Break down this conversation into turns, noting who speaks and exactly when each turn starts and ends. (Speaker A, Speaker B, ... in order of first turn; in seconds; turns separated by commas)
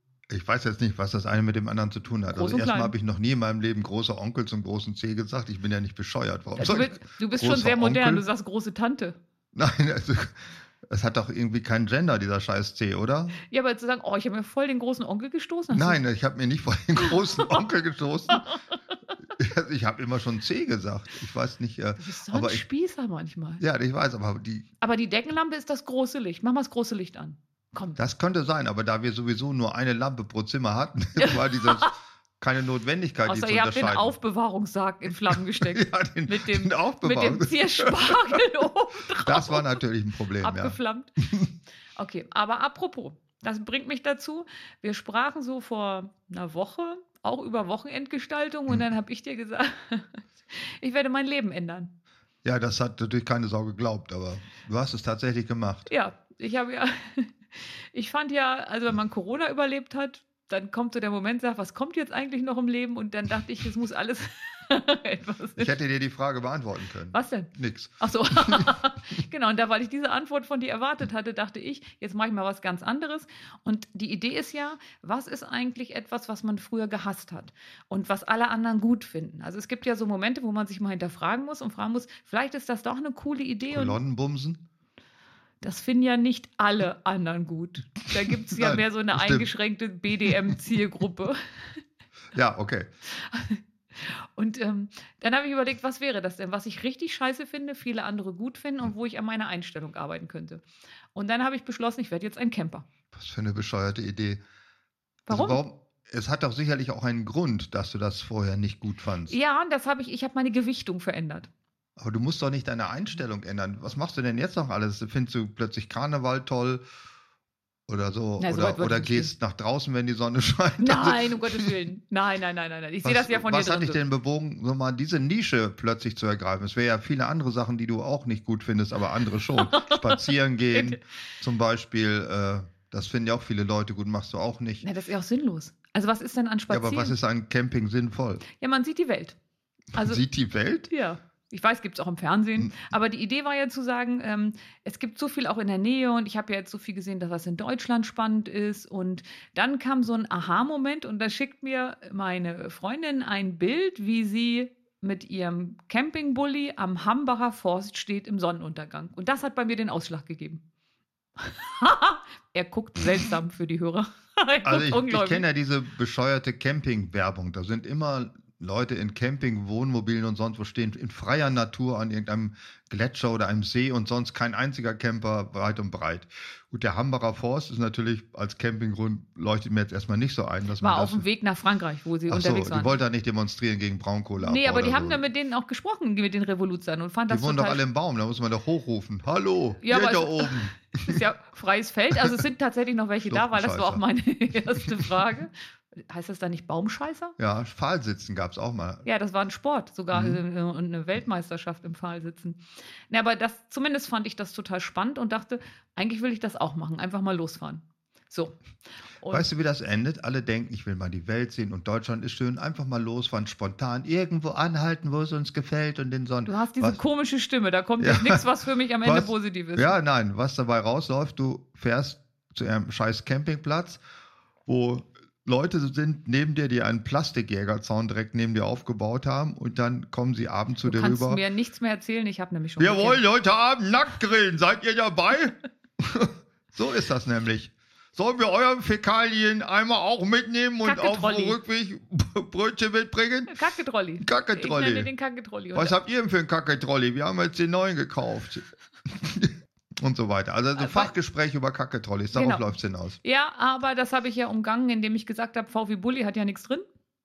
Speaker A: 0.3-8.2, Speaker B: 2.3-2.9, Speaker B: 6.6-9.2, Speaker A: 9.5-13.4, Speaker B: 13.5-16.0, Speaker A: 15.7-18.4, Speaker A: 19.4-22.6, Speaker B: 22.0-23.6, Speaker A: 23.6-24.7, Speaker B: 24.8-28.0, Speaker A: 28.0-34.1, Speaker B: 31.2-31.9, Speaker B: 33.2-39.8, Speaker A: 35.3-38.4, Speaker A: 39.2-41.5, Speaker B: 40.4-41.1, Speaker B: 42.0-51.9, Speaker A: 52.4-55.9, Speaker B: 55.9-65.7, Speaker A: 65.6-68.7, Speaker B: 67.1-84.0, Speaker A: 83.7-84.6, Speaker B: 85.6-91.4, Speaker A: 88.5-89.5, Speaker A: 92.3-92.9, Speaker B: 93.1-100.6, Speaker B: 101.1-102.8, Speaker A: 103.1-104.4, Speaker B: 105.3-105.6, Speaker A: 105.3-109.3, Speaker B: 109.3-111.5, Speaker A: 112.0-116.8, Speaker A: 117.9-121.7, Speaker B: 118.4-119.3, Speaker B: 120.8-124.0, Speaker A: 123.0-134.8, Speaker B: 129.6-130.2, Speaker B: 130.7-131.0, Speaker B: 134.8-137.1, Speaker A: 136.7-138.4, Speaker B: 138.5-139.3, Speaker B: 139.9-140.2, Speaker A: 140.0-140.9, Speaker B: 140.9-160.6, Speaker B: 161.4-165.4, Speaker A: 164.6-181.2, Speaker B: 180.8-183.0, Speaker A: 182.3-185.2, Speaker B: 184.4-187.8, Speaker A: 187.3-191.2, Speaker B: 189.8-197.3, Speaker A: 193.3-194.0, Speaker A: 197.4-199.1, Speaker B: 199.0-208.6, Speaker A: 200.1-200.4, Speaker B: 209.2-209.5, Speaker A: 209.3-217.0, Speaker B: 216.4-219.9, Speaker A: 218.0-218.4, Speaker A: 219.0-224.0, Speaker A: 224.7-231.4, Speaker B: 230.8-233.2, Speaker A: 232.8-243.6, Speaker B: 240.8-241.6, Speaker B: 243.5-245.9, Speaker A: 244.2-245.1, Speaker A: 245.7-253.2, Speaker B: 250.8-251.1, Speaker B: 252.3-252.7, Speaker B: 253.2-256.8